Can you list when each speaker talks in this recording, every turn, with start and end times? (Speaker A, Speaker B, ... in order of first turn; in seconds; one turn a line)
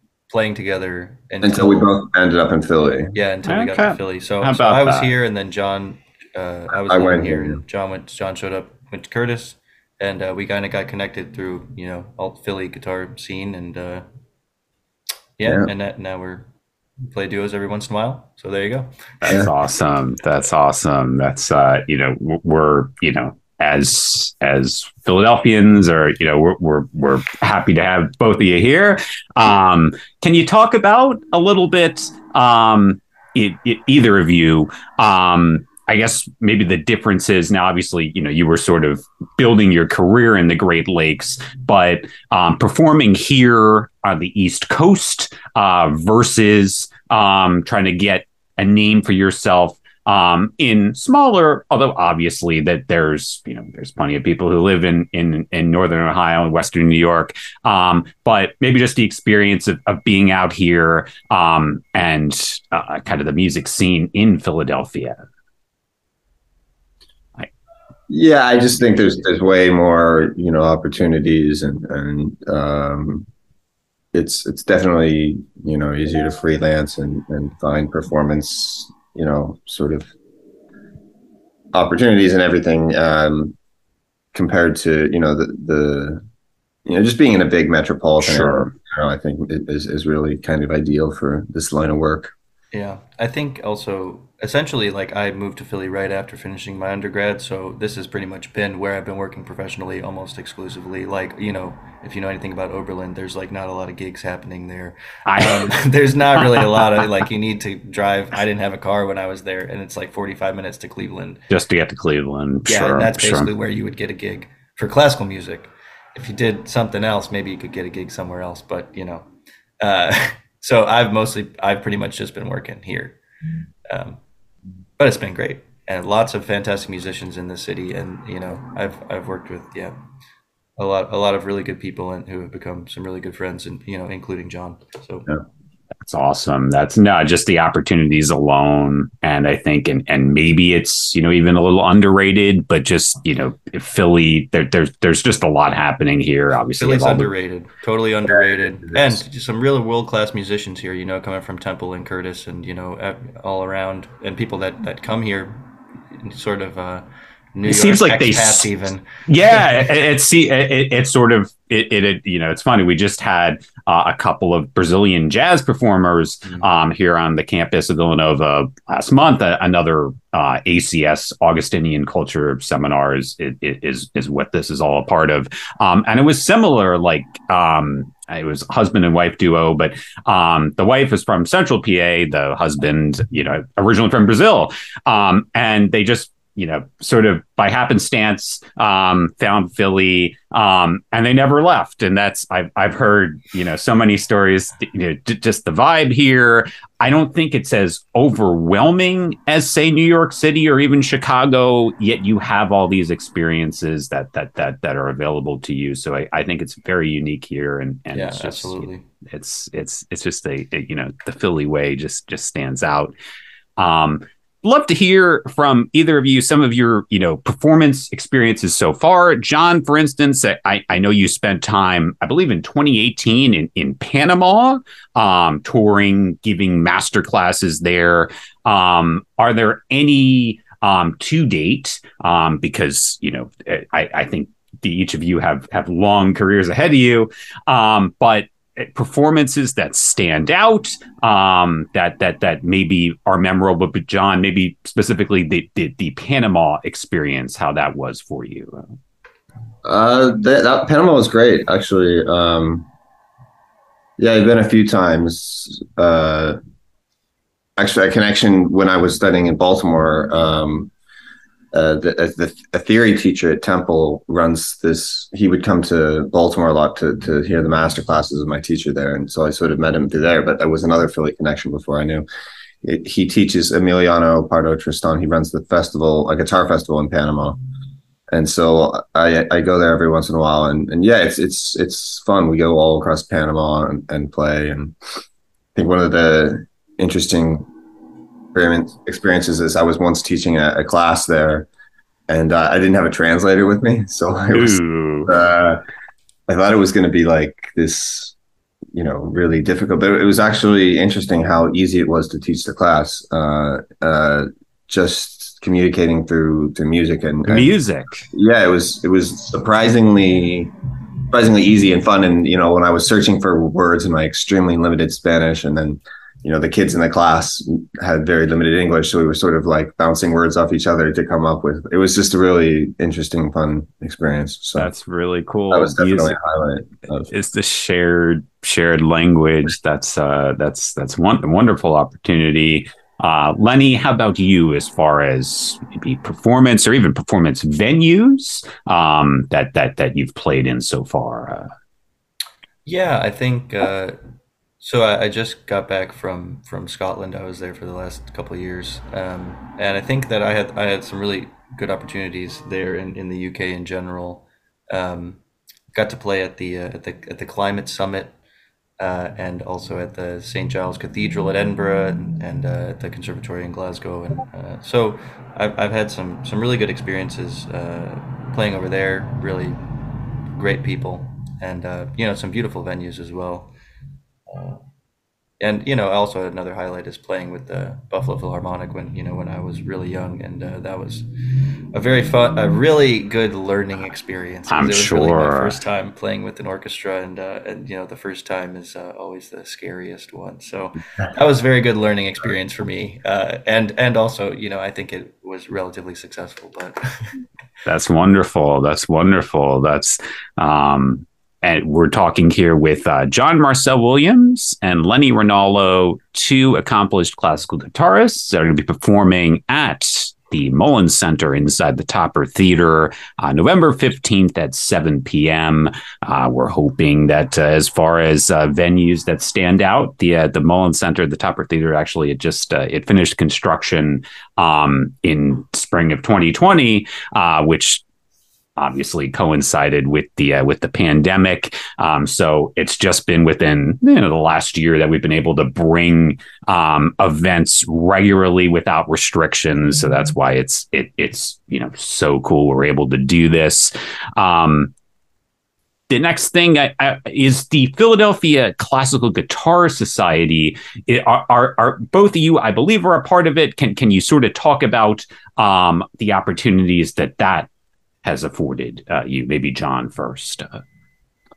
Speaker A: 0.3-1.9
Speaker B: 1.4-3.1
Speaker A: 3.1-14.0
Speaker C: 3.5-5.1
Speaker B: 6.7-7.6
Speaker A: 15.4-16.5
Speaker A: 17.0-19.4
Speaker C: 19.2-65.2
Speaker B: 68.1-73.3
Speaker B: 74.1-80.1
Speaker B: 81.7-83.5
Speaker B: 84.3-86.2
Speaker B: 86.8-92.3
Speaker C: 88.2-88.7
Speaker A: 92.7-111.4
Speaker C: 105.2-105.8
Speaker C: 106.3-107.1
Speaker C: 111.5-113.5
Speaker A: 112.7-119.3
Speaker A: 119.8-123.2
Speaker A: 123.9-124.2
Speaker A: 125.0-129.9
Speaker A: 130.8-135.3
Speaker C: 136.0-147.3
Speaker A: 146.8-159.9
Speaker B: 148.8-149.2
Speaker C: 157.6-158.7
Speaker C: 159.3-213.1
Speaker A: 208.1-209.1
Speaker C: 213.8-248.9
Speaker B: 249.8-252.9
Speaker B: 254.2-256.6
Speaker B: 257.8-260.9
Speaker B: 261.7-272.2
Speaker B: 272.8-277.6
Speaker B: 278.3-284.9
Speaker B: 285.7-287.7
Speaker B: 288.5-291.7
Speaker B: 292.3-295.8
Speaker C: 294.5-295.3
Speaker B: 296.5-298.4
Speaker B: 298.9-307.7
Speaker C: 307.5-308.2
Speaker B: 308.3-310.7
Speaker B: 311.3-324.9
Speaker C: 324.8-326.4
Speaker B: 325.7-327.3
Speaker C: 327.3-341.7
Speaker A: 342.9-344.2
Speaker A: 344.8-355.4
Speaker A: 355.9-358.4
Speaker A: 359.0-369.8
Speaker A: 370.5-373.7
Speaker A: 374.5-374.8
Speaker A: 375.6-397.4
Speaker C: 384.7-385.8
Speaker C: 397.8-428.0
Speaker C: 428.8-444.9
Speaker C: 446.1-457.7
Speaker C: 458.2-460.8